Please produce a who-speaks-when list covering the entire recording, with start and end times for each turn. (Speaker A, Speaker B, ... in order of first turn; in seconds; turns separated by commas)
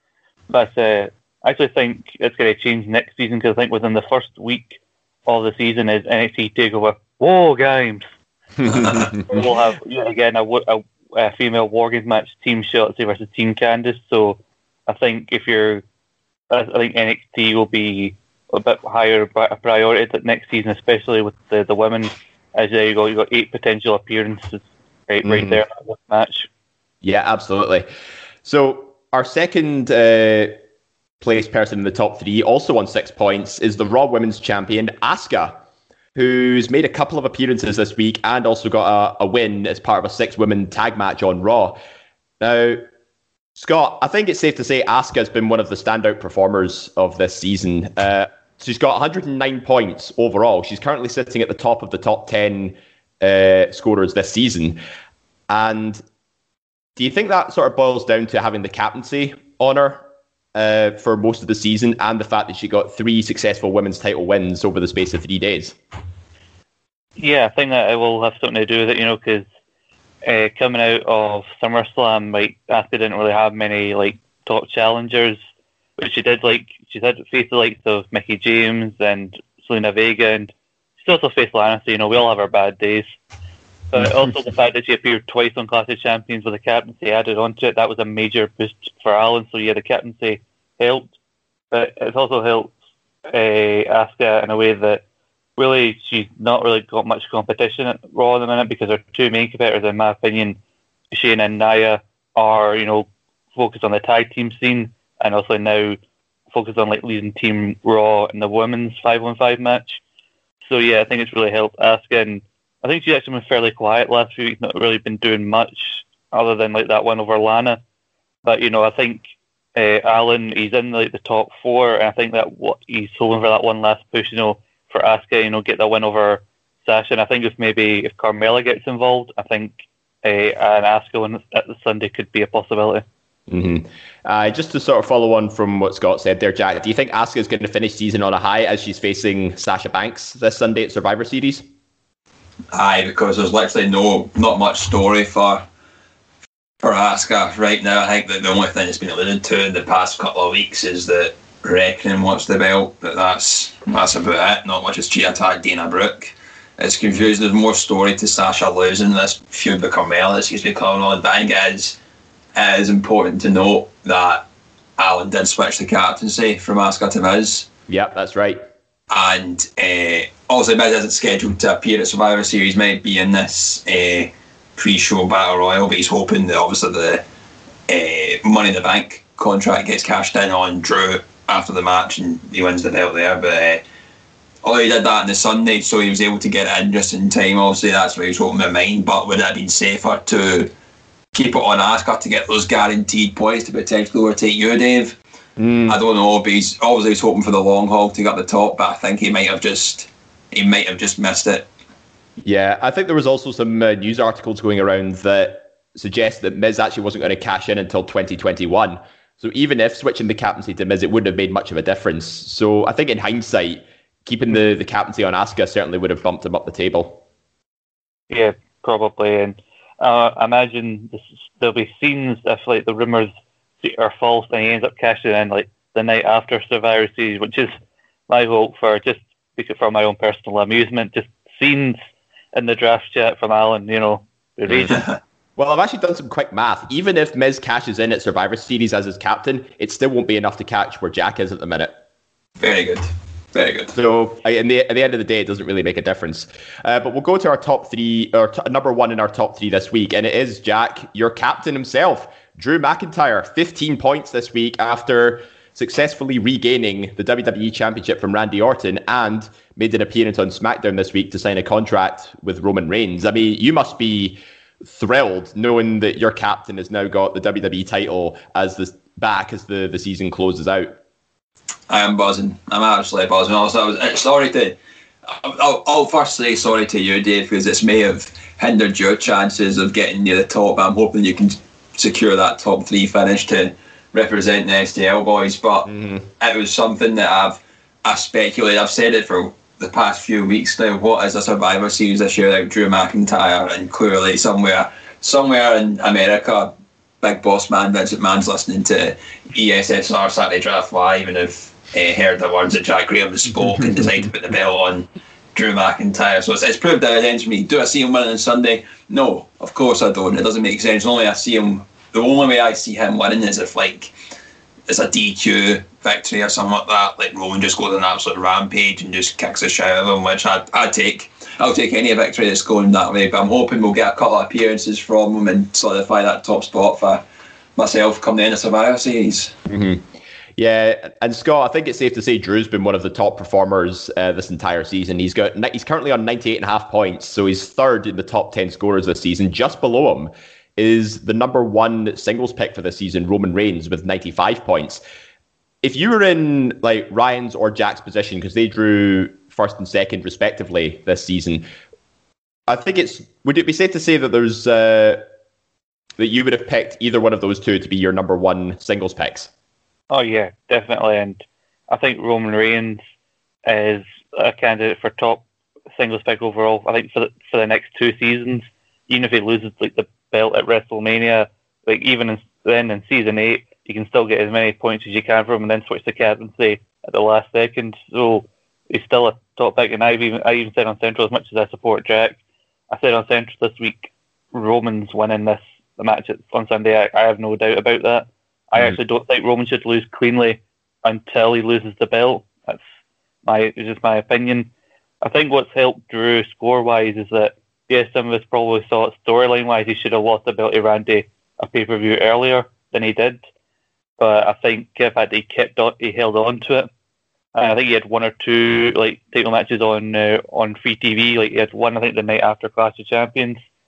Speaker A: 0.5-8.0, Speaker B: 8.6-9.2, Speaker A: 9.2-15.8, Speaker A: 16.5-26.5, Speaker B: 25.2-25.6, Speaker B: 27.0-27.9, Speaker B: 28.4-30.6, Speaker B: 31.2-35.6, Speaker B: 36.1-41.8, Speaker B: 42.4-42.8, Speaker B: 43.5-54.8, Speaker B: 55.5-56.0, Speaker B: 57.0-65.8, Speaker A: 67.2-69.5, Speaker A: 70.2-75.4, Speaker A: 76.0-83.1, Speaker A: 83.9-91.1, Speaker A: 91.7-92.7, Speaker A: 93.3-95.0, Speaker A: 95.6-100.6, Speaker A: 101.1-106.0, Speaker A: 106.5-110.0, Speaker A: 110.7-117.8, Speaker A: 118.4-133.0, Speaker B: 133.5-141.7, Speaker C: 142.7-145.6, Speaker C: 146.8-162.0, Speaker C: 162.5-164.4, Speaker C: 165.0-167.7, Speaker B: 167.9-168.6, Speaker C: 169.1-177.2, Speaker C: 177.9-183.8, Speaker C: 184.6-190.7, Speaker C: 191.3-195.2, Speaker B: 195.6-196.0, Speaker C: 195.9-201.7, Speaker B: 202.4-217.2, Speaker A: 218.3-227.7, Speaker A: 228.3-232.0, Speaker A: 232.5-235.0, Speaker C: 234.9-235.1, Speaker B: 235.6-241.9, Speaker C: 242.6-243.9, Speaker B: 243.9-270.9, Speaker C: 271.9-274.8, Speaker C: 275.3-314.1, Speaker B: 285.9-286.2, Speaker C: 314.9-327.2, Speaker C: 327.8-329.5, Speaker B: 329.7-345.0, Speaker B: 345.8-351.7, Speaker B: 352.7-355.2, Speaker B: 356.2-359.5, Speaker A: 360.1-363.0, Speaker A: 363.6-382.4, Speaker A: 382.9-392.8, Speaker A: 393.4-394.7, Speaker A: 395.2-403.4, Speaker A: 404.2-406.9, Speaker A: 407.5-413.6